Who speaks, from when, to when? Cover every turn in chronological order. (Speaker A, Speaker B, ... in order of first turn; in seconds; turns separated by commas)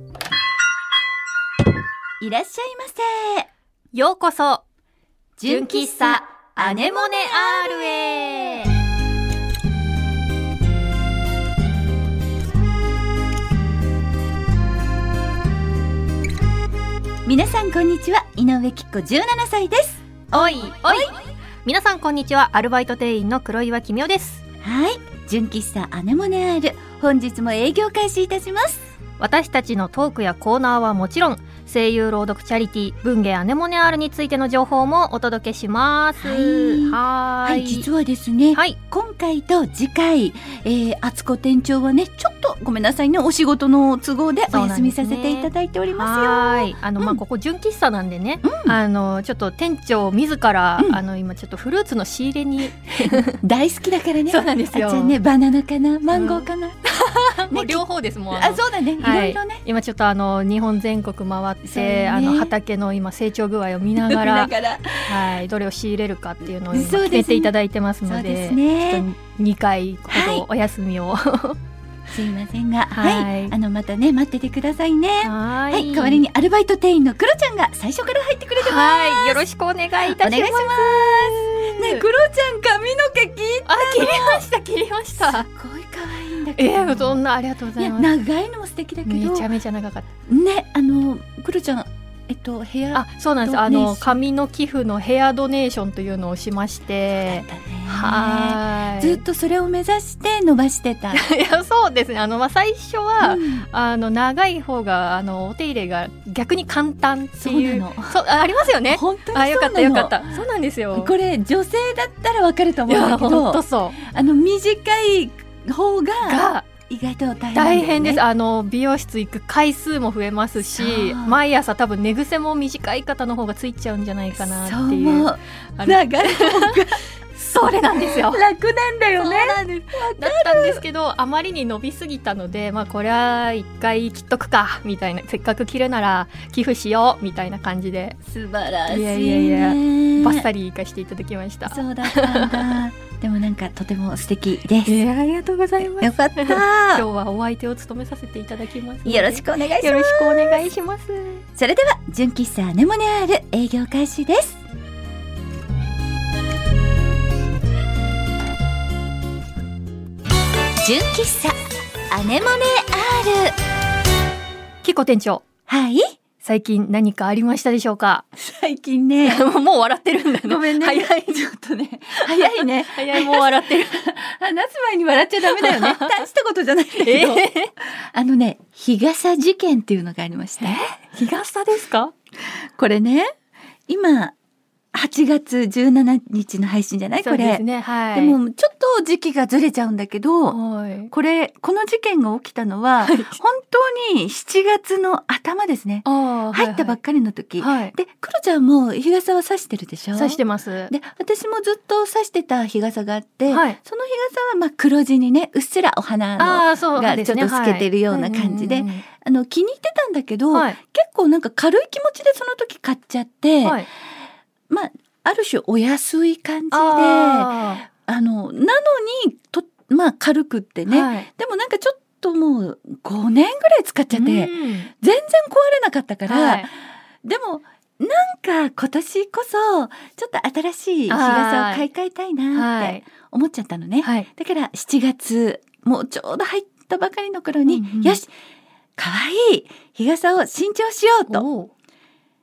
Speaker A: 2.2-3.5, Speaker B: 3.9-4.6, Speaker A: 5.4-8.3, Speaker B: 5.4-8.7, Speaker A: 17.2-21.1, Speaker B: 20.3-24.4, Speaker A: 24.6-28.9, Speaker B: 29.2-37.9, Speaker A: 36.2-47.2, Speaker B: 44.5-53.4, Speaker A: 48.4-48.8, Speaker A: 53.1-56.8, Speaker B: 54.3-55.1, Speaker B: 56.1-64.5, Speaker A: 57.5-59.6, Speaker A: 61.6-62.5, Speaker A: 64.0-65.3, Speaker B: 65.0-71.6, Speaker A: 66.7-67.5, Speaker A: 68.0-69.0, Speaker A: 70.1-70.5, Speaker A: 72.1-79.4, Speaker B: 72.9-73.5, Speaker B: 75.2-76.2, Speaker B: 78.6-82.0, Speaker A: 80.2-84.4, Speaker B: 83.7-85.5, Speaker A: 85.2-87.2, Speaker B: 86.6-88.1, Speaker A: 87.8-89.5, Speaker B: 89.0-90.1, Speaker A: 90.3-94.2, Speaker B: 92.9-99.2, Speaker A: 97.2-101.2, Speaker B: 101.1-111.1, Speaker A: 103.2-103.7, Speaker A: 107.4-108.2, Speaker A: 108.8-118.2, Speaker B: 112.9-114.0, Speaker B: 116.2-116.7, Speaker B: 117.5-126.8, Speaker A: 120.8-121.4, Speaker A: 124.4-127.0, Speaker B: 127.3-128.4, Speaker A: 127.9-130.8, Speaker B: 129.2-138.2, Speaker A: 138.2-140.4, Speaker B: 138.9-142.7, Speaker A: 141.7-145.0, Speaker B: 144.8-151.4, Speaker A: 146.0-147.0, Speaker A: 149.0-150.6, Speaker A: 151.6-154.6, Speaker A: 160.8-163.6, Speaker B: 164.8-165.4, Speaker A: 165.7-166.1, Speaker B: 166.4-168.2, Speaker A: 168.3-169.4, Speaker B: 169.2-171.4, Speaker A: 170.4-180.8, Speaker B: 172.1-174.0, Speaker B: 175.4-176.2, Speaker B: 176.9-177.7, Speaker B: 180.6-182.1, Speaker A: 182.5-183.3, Speaker A: 183.9-184.3, Speaker A: 184.9-190.6, Speaker B: 187.2-188.4, Speaker B: 190.5-191.1, Speaker A: 191.1-213.8, Speaker B: 193.0-193.4, Speaker B: 196.0-197.0, Speaker B: 197.6-197.9, Speaker B: 200.1-200.9, Speaker B: 203.5-203.8, Speaker B: 206.4-209.0, Speaker B: 210.5-210.8, Speaker A: 214.7-238.3, Speaker B: 216.7-217.8, Speaker B: 220.9-221.3, Speaker B: 224.1-224.9, Speaker B: 226.2-226.7, Speaker B: 231.1-231.9, Speaker B: 232.5-233.0, Speaker B: 234.0-234.3, Speaker B: 237.7-238.2, Speaker A: 239.0-241.4, Speaker B: 241.3-241.7